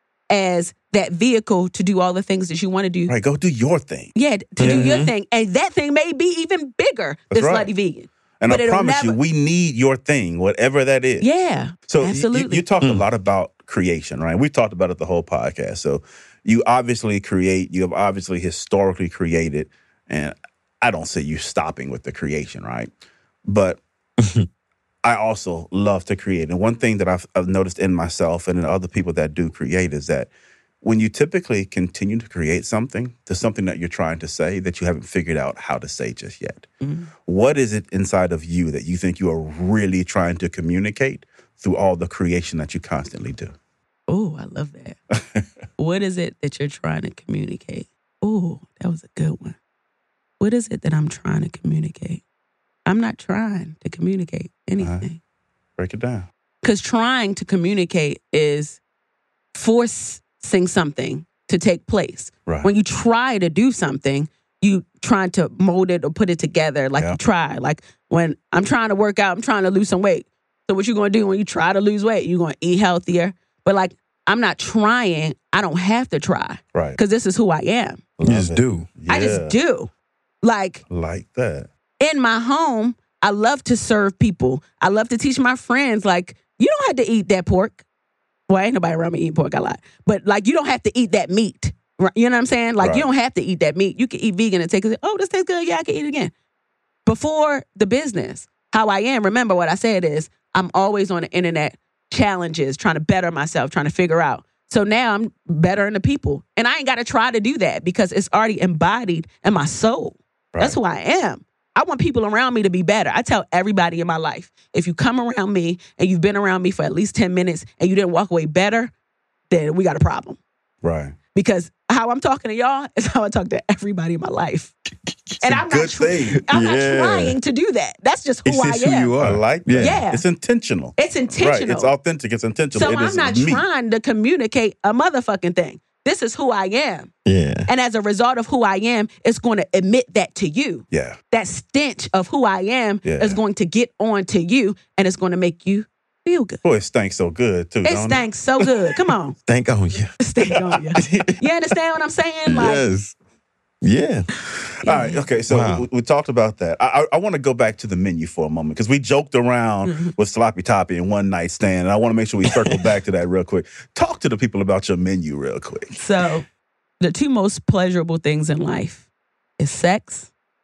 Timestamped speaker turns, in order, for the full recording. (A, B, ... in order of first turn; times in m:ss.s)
0:00.3-0:03.1 A
0:03.1-0:04.1 B
0:04.1-0:09.2 A
0:04.6-0:05.1 C
0:04.6-0:04.9 B
0:07.3-0:07.7 B
0:08.4-0:11.3 B
0:11.2-0:12.6 A
0:11.9-0:22.9 B
0:23.4-0:23.8 B
0:24.2-0:24.5 C
0:25.0-0:30.3 B
0:30.8-0:36.7 B
0:36.8-0:37.1 A
0:37.2-0:43.5 B
0:44.1-0:45.0 A
0:45.1-0:45.4 B
0:45.8-0:49.6 A
0:50.4-0:52.2 A
0:52.8-0:55.2 A
0:54.8-0:55.1 B
0:55.8-0:56.3 B
0:56.6-0:58.8 A
0:59.5-1:18.0 A
1:16.7-1:17.0 B
1:18.2-1:19.5 B
1:18.2-1:18.9 C
1:19.1-1:19.9 A
1:20.4-1:20.8 A
1:20.9-1:21.7 B
1:22.0-1:27.8 A
1:28.5-1:36.3 A
1:32.8-1:33.1 B
1:37.0-1:58.9 A
1:59.5-2:00.4 A
2:00.8-2:01.2 B
2:01.3-2:04.7 A
2:05.4-2:09.1 A
2:05.4-2:06.4 B
2:06.4-2:07.4 C
2:08.4-2:10.0 C
2:09.2-2:13.6 B
2:09.8-2:10.2 A
2:11.0-2:11.9 A
2:12.7-2:17.1 A
2:17.2-2:17.7 C
2:17.7-2:26.6 A
2:20.9-2:21.2 B
2:23.0-2:23.4 B
2:26.6-2:28.2 B
2:27.8-2:29.3 A
2:29.5-2:30.1 C
2:30.2-2:32.8 A
2:31.0-2:31.4 C
2:32.5-2:33.2 C
2:33.8-2:34.3 C
2:34.8-2:35.2 A
2:34.8-2:46.0 B
2:35.5-2:35.8 C
2:45.9-2:46.4 A
2:47.0-2:49.0 A
2:49.6-2:50.3 A